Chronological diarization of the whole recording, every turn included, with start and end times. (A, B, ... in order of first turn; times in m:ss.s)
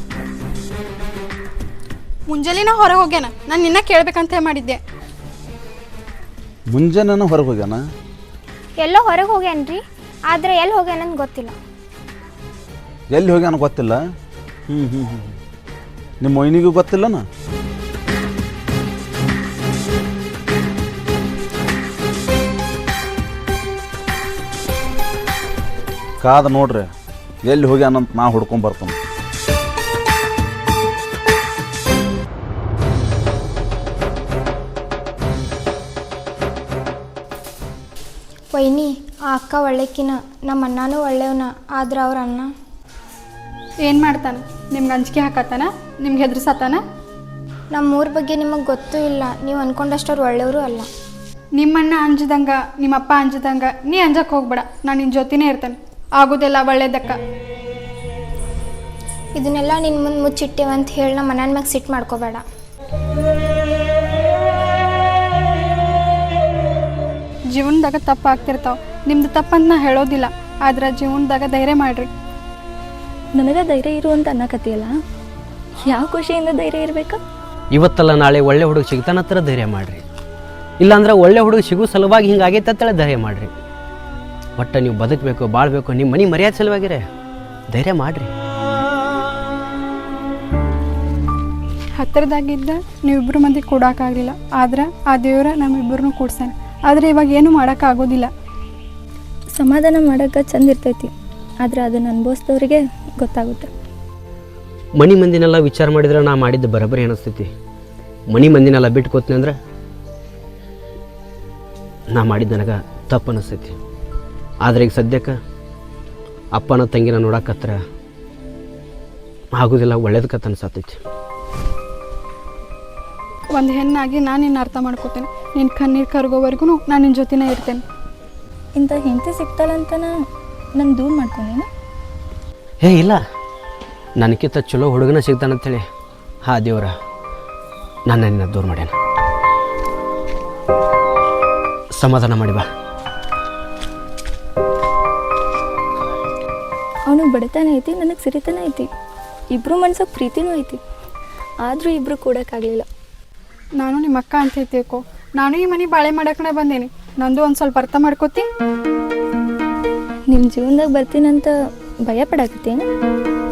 0:02.3-0:04.8 A
0:06.7-0:07.8 B
0:08.8-0:11.6 C
0:13.1-0:14.0 B
0:14.7-0:15.3 B
0:16.2-0:17.2 B
0:26.2-0:26.9 B
0:27.4-0:28.9 B
0:38.5-0:42.5 C
0:43.8-0:46.8 A
0:47.7-0:50.9 C
0:51.6-0:57.2 A
0:59.4-1:02.4 C
1:07.5-1:12.1 A
1:13.3-1:14.9 D
1:15.8-1:17.2 D
1:17.7-1:20.0 E
1:20.8-1:23.5 E
1:24.6-1:27.0 E
1:27.7-1:28.3 E
1:32.0-1:38.3 A
1:39.6-1:41.1 D
1:41.6-1:43.7 D
1:45.0-1:47.5 E
1:48.3-1:49.6 E
1:52.1-1:53.8 E
1:54.6-1:55.4 E
1:56.5-1:57.8 E
1:59.6-2:01.0 E
2:03.5-2:07.8 A
2:08.8-2:10.1 D
2:10.8-2:11.7 D
2:12.8-2:13.2 E
2:14.2-2:15.8 E
2:16.5-2:16.9 E
2:18.1-2:18.9 E
2:22.0-2:22.6 E
2:27.1-2:28.8 D
2:29.5-2:30.8 D
2:31.6-2:32.8 D
2:33.8-2:38.4 A
2:40.3-2:41.5 D
2:42.1-2:42.8 D